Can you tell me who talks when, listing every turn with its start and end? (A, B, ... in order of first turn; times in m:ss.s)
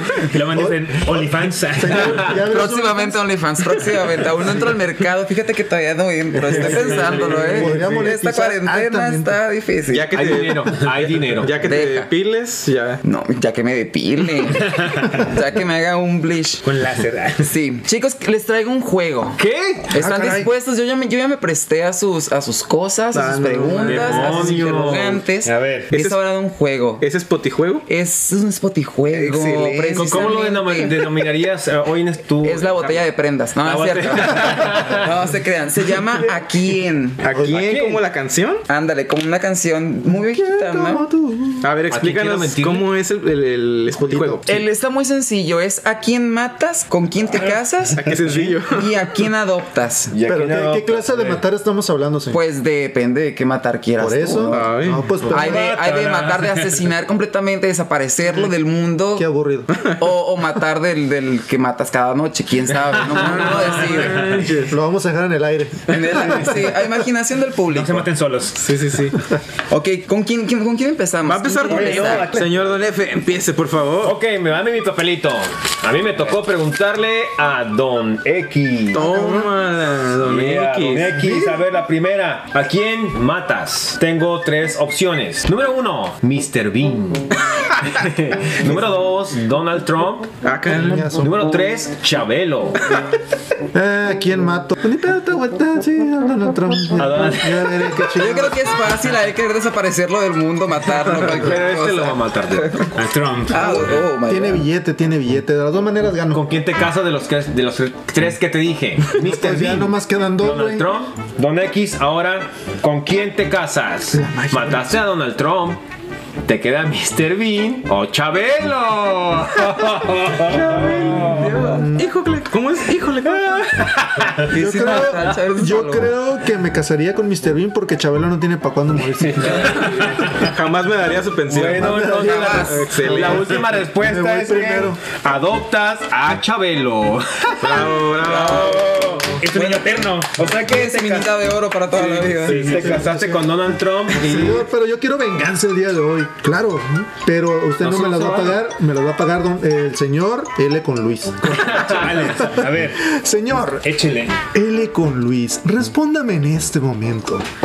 0:00.2-0:02.3 A
0:00.5-0:03.2 B
0:02.5-0:10.2 C
0:06.4-0:07.9 D
0:06.6-0:07.5 E
0:06.7-0:09.4 B
0:07.2-0:07.8 A
0:09.9-0:13.0 E
0:10.1-0:11.5 D
0:11.6-0:12.1 C
0:13.0-0:16.6 C
0:14.6-0:15.2 A
0:16.6-0:17.5 A
0:17.4-0:19.4 C
0:19.4-0:19.8 D
0:19.9-0:27.0 C
0:20.0-0:20.5 B
0:23.1-0:25.0 E
0:23.8-0:25.2 D
0:23.9-0:24.6 A
0:25.4-0:25.9 A
0:25.9-0:26.2 E
0:27.0-0:27.8 E
0:27.9-0:31.0 C
0:29.1-0:33.1 D
0:32.4-0:37.2 C
0:33.6-0:35.1 D
0:37.2-0:38.6 E
0:37.3-0:37.6 B
0:37.4-0:38.0 D
0:38.7-0:41.0 C
0:40.1-0:41.7 B
0:41.6-0:44.6 E
0:41.9-0:42.9 D
0:44.0-0:44.6 B
0:44.5-0:48.0 C
0:47.9-0:48.8 E
0:48.7-0:50.1 C
0:50.1-0:51.0 D
0:50.3-0:52.4 B
0:51.2-0:51.4 A
0:52.3-0:54.7 C
0:54.0-0:55.6 B
0:54.5-0:55.1 E
0:55.3-0:59.3 C
0:55.4-0:56.8 A
0:59.2-0:59.7 B
1:00.0-1:04.3 C
1:03.1-1:04.8 E
1:04.7-1:06.6 B
1:05.9-1:08.1 C
1:07.7-1:08.6 A
1:08.6-1:09.2 E
1:09.7-1:12.3 C
1:11.2-1:14.2 E
1:11.7-1:12.6 D
1:14.0-1:19.1 D
1:18.9-1:21.3 E
1:18.9-1:19.5 B
1:20.2-1:30.3 D
1:21.2-1:21.6 B
1:30.4-1:31.1 E
1:30.7-1:31.6 B
1:31.2-1:33.0 D
1:33.7-1:38.7 B
1:37.0-1:37.8 D
1:37.0-1:37.4 A
1:38.2-1:42.9 C
1:41.2-1:42.9 D
1:43.0-1:44.0 A
1:43.5-1:44.6 C
1:44.3-1:46.5 B
1:46.3-1:55.8 D
1:49.2-1:50.9 B
1:54.1-1:54.9 B
1:56.5-2:01.6 D
2:00.5-2:03.9 E
2:01.4-2:01.8 C
2:01.5-2:02.1 B
2:03.3-2:04.4 D
2:04.5-2:10.0 B
2:04.5-2:06.1 C
2:09.2-2:10.2 D
2:10.4-2:13.6 E
2:11.5-2:19.3 D
2:11.7-2:15.0 B
2:17.6-2:19.3 E
2:18.3-2:18.8 C
2:19.3-2:20.5 A
2:19.5-2:22.6 C
2:20.4-2:21.3 D
2:22.0-2:24.7 D
2:22.5-2:23.0 A
2:22.7-2:33.8 B
2:27.8-2:28.6 D
2:31.7-2:32.0 D
2:31.8-2:33.0 A
2:33.8-2:34.4 A
2:34.5-2:37.4 B